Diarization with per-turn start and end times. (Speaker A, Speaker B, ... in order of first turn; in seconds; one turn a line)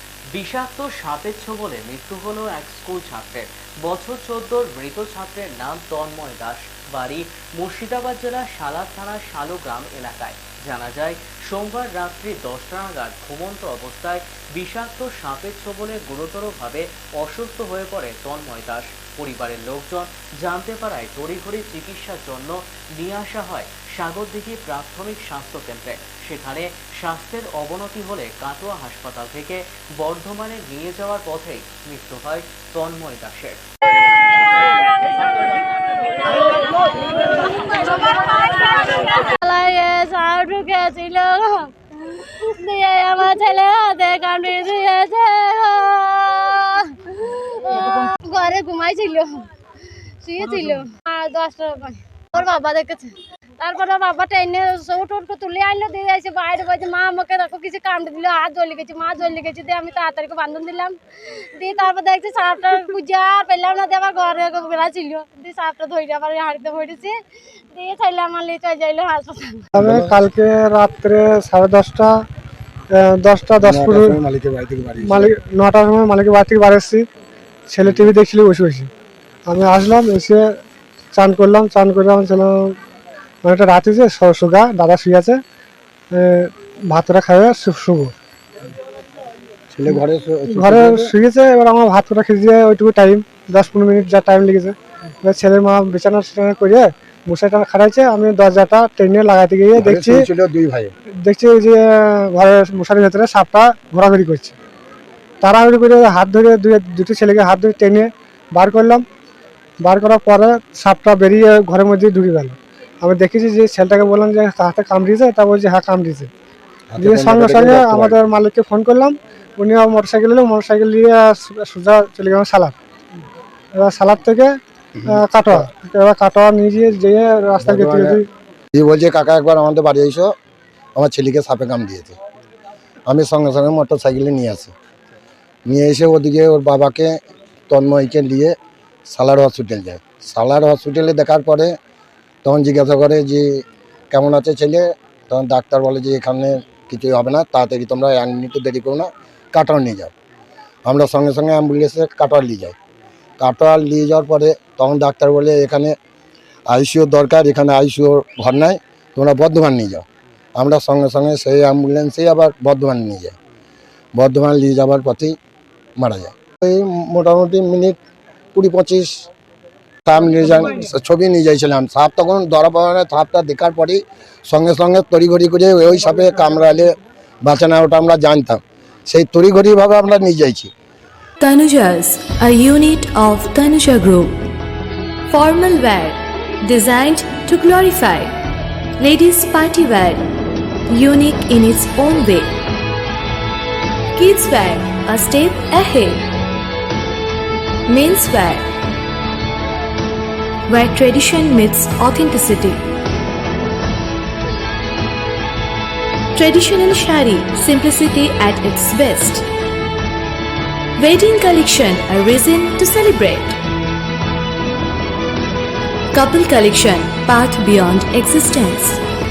Speaker A: 0.3-33.6
Speaker B: 37.5-61.0
Speaker B: 61.6-67.2
Speaker B: 67.7-69.7
Speaker C: 69.8-70.2
Speaker D: 69.8-72.1
Speaker D: 72.9-74.2
Speaker C: 73.6-75.3
Speaker D: 75.0-77.0
Speaker D: 77.7-78.9
Speaker D: 79.5-80.4
Speaker D: 81.1-82.7
Speaker D: 83.4-85.4
Speaker D: 86.1-88.1
Speaker C: 89.7-91.1
Speaker D: 90.5-100.2
Speaker C: 99.8-100.9
Speaker D: 101.2-104.5
Speaker D: 105.4-109.0
Speaker D: 109.8-116.3
Speaker C: 116.9-118.3
Speaker D: 117.0-122.7
Speaker D: 123.8-124.5
Speaker D: 125.0-128.2
Speaker C: 127.6-128.2
Speaker C: 128.7-130.3
Speaker C: 130.9-132.2
Speaker C: 133.1-134.7
Speaker C: 135.7-137.1
Speaker C: 137.7-138.5
Speaker C: 139.1-141.7
Speaker C: 142.4-150.1
Speaker C: 150.8-152.8
Speaker C: 153.4-155.9
Speaker C: 156.7-160.0
Speaker C: 160.6-163.3
Speaker C: 164.2-165.3
Speaker C: 166.0-168.0
Speaker C: 168.5-169.3
Speaker C: 170.0-180.7
Speaker E: 181.4-184.3
Speaker E: 185.3-188.3
Speaker E: 189.0-190.2
Speaker E: 190.9-192.5
Speaker E: 194.1-196.2
Speaker E: 197.9-198.6
Speaker E: 200.7-202.8
Speaker E: 206.3-209.5
Speaker E: 211.0-213.6
Speaker E: 216.1-219.0